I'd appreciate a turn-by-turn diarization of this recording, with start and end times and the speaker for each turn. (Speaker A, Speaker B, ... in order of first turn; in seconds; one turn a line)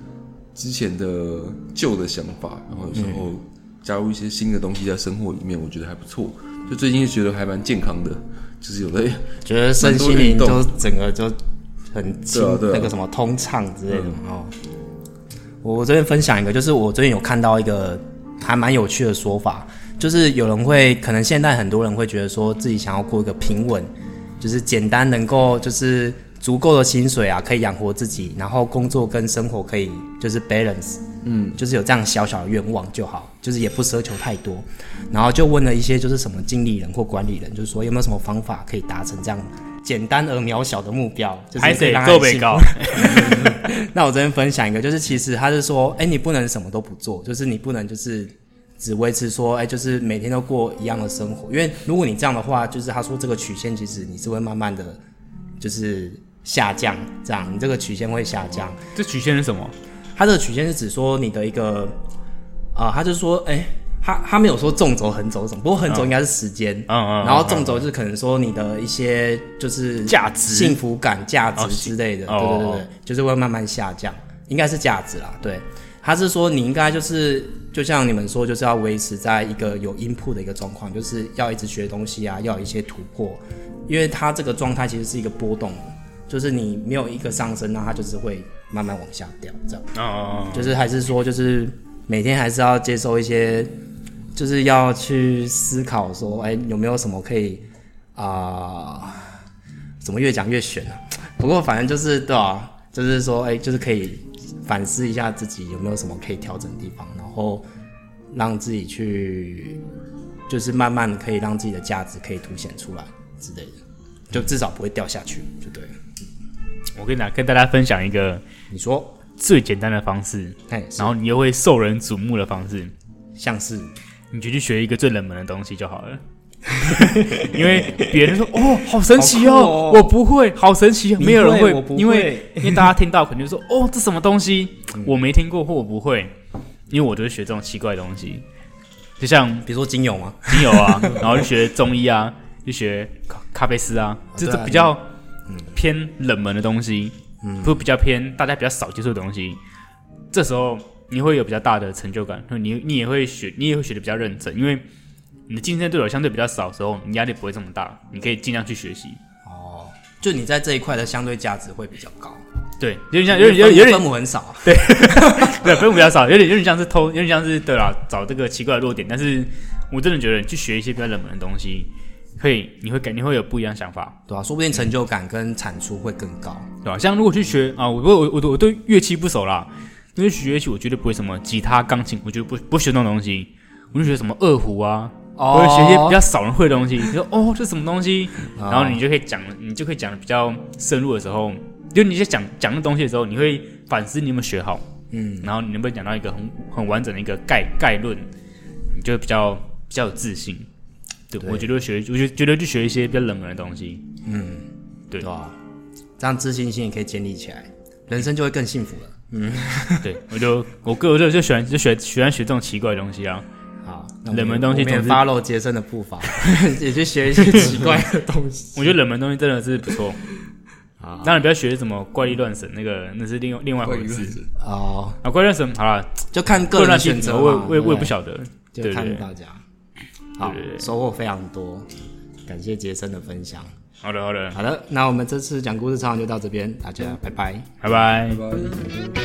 Speaker A: 0.6-10.7
Speaker B: 3.0-3.3
Speaker B: 9.4-11.4
Speaker B: 11.9-14.6
Speaker A: 12.3-12.9
Speaker A: 13.9-14.2
Speaker B: 15.6-31.0
Speaker A: 31.2-31.6
Speaker B: 31.6-55.0
Speaker C: 41.6-43.6
Speaker B: 55.6-58.8
Speaker C: 58.9-59.7
Speaker B: 60.2-62.0
Speaker B: 62.8-89.9
Speaker C: 66.9-67.8
Speaker C: 70.1-70.8
Speaker C: 71.6-72.9
Speaker C: 89.9-90.8
Speaker B: 90.5-93.7
Speaker B: 94.3-97.6
Speaker B: 98.2-99.4
Speaker B: 100.0-107.7
Speaker B: 108.3-109.8
Speaker B: 110.5-113.8
Speaker B: 114.3-116.0
Speaker C: 117.0-118.4
Speaker B: 118.7-119.2
Speaker C: 119.4-122.9
Speaker B: 120.7-121.2
Speaker B: 123.3-123.9
Speaker C: 124.3-126.2
Speaker C: 126.8-136.3
Speaker B: 126.9-128.2
Speaker B: 129.1-130.2
Speaker B: 131.2-133.0
Speaker C: 136.9-138.4
Speaker C: 139.2-139.7
Speaker B: 139.7-141.5
Speaker C: 140.5-145.1
Speaker B: 144.3-145.0
Speaker B: 145.5-145.7
Speaker C: 145.7-149.6
Speaker B: 147.4-147.8
Speaker C: 150.3-154.8
Speaker C: 155.5-159.2
Speaker B: 159.4-162.4
Speaker C: 162.8-164.1
Speaker B: 163.3-165.7
Speaker C: 164.6-174.2
Speaker B: 174.3-176.7
Speaker C: 176.8-194.8
Speaker B: 185.4-186.2
Speaker B: 188.6-189.0
Speaker B: 195.1-195.5
Speaker C: 195.4-198.3
Speaker C: 198.9-200.7
Speaker C: 201.3-204.1
Speaker B: 201.4-201.7
Speaker B: 204.2-204.7
Speaker B: 205.2-205.6
Speaker B: 206.2-210.1
Speaker C: 210.0-213.4
Speaker B: 213.8-218.9
Speaker C: 214.3-215.2
Speaker C: 217.5-217.9
Speaker C: 218.8-220.2
Speaker B: 221.0-221.4
Speaker C: 221.2-224.4
Speaker A: 223.8-224.5
Speaker B: 224.6-225.2
Speaker C: 225.2-229.2
Speaker B: 226.3-228.2
Speaker B: 228.7-229.6
Speaker B: 230.4-231.9
Speaker C: 230.4-230.9
Speaker B: 232.5-233.7
Speaker C: 234.0-234.6
Speaker B: 234.5-237.9
Speaker C: 237.8-238.6